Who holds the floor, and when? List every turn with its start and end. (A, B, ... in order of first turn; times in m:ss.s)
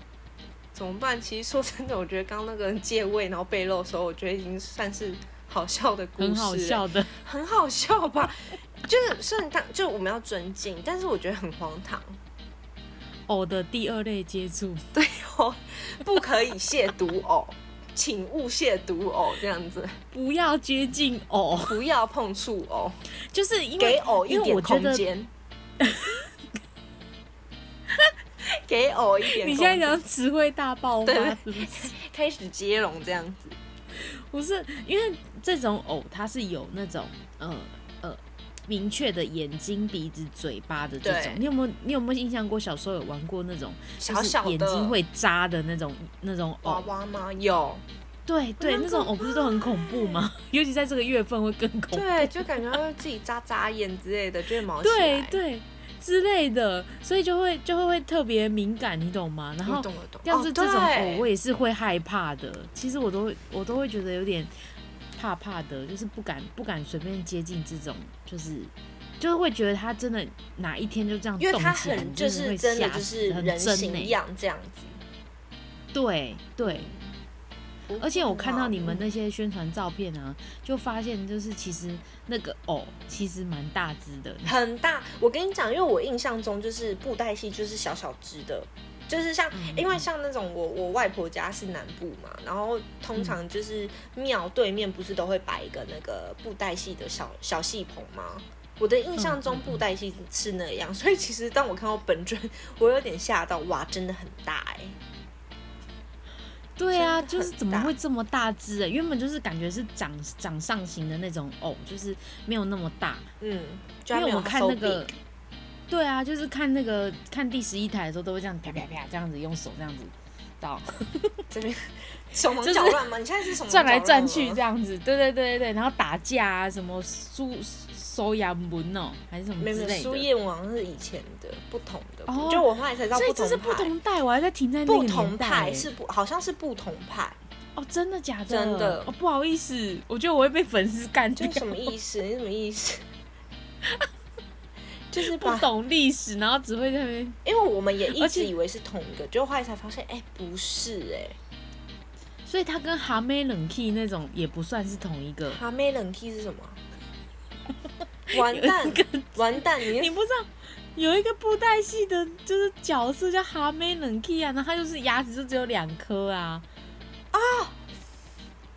0:00.7-0:12.2 A
0:06.2-0:07.1 B
0:13.3-0:14.8 B
0:14.9-0:20.0 A
0:20.1-0:21.8 B
0:21.6-0:23.0 A
0:23.3-0:25.1 B
0:23.8-0:25.3 A
0:25.8-0:26.3 B
0:28.4-0:30.0 A
0:29.2-0:31.9 B
0:31.0-0:33.6 A
0:34.0-0:46.8 B
0:41.0-0:41.4 A
0:44.0-0:45.0 A
0:46.6-0:47.8 A
0:48.3-0:52.5 B
0:48.6-0:50.2 A
0:51.9-0:55.4 A
0:54.8-1:04.5 B
0:59.6-1:01.3 A
1:05.2-1:14.2 B
1:11.4-1:15.0 A
1:15.9-1:16.9 B
1:16.6-1:17.0 A
1:17.9-1:19.1 A
1:18.0-1:24.5 B
1:24.4-1:45.0 A
1:29.5-1:30.1 B
1:39.2-1:39.8 B
1:46.8-1:53.3 B
1:46.9-1:48.0 A
1:53.4-1:55.1 A
1:54.1-1:55.1 B
1:55.9-2:01.4 B
2:01.5-2:04.6 A
2:02.6-2:03.0 B
2:03.6-2:10.3 B
2:09.6-2:13.9 A
2:12.3-2:15.9 B
2:14.9-2:17.4 A
2:17.8-2:21.9 B
2:18.5-2:19.1 A
2:21.4-2:23.0 A
2:25.1-2:25.7 A
2:25.2-2:27.4 B
2:27.4-2:31.4 A
2:28.2-2:28.5 B
2:32.4-2:35.6 B
2:35.5-2:36.8 A
2:38.3-2:40.1 A
2:38.3-2:46.7 B
2:47.3-2:47.8 A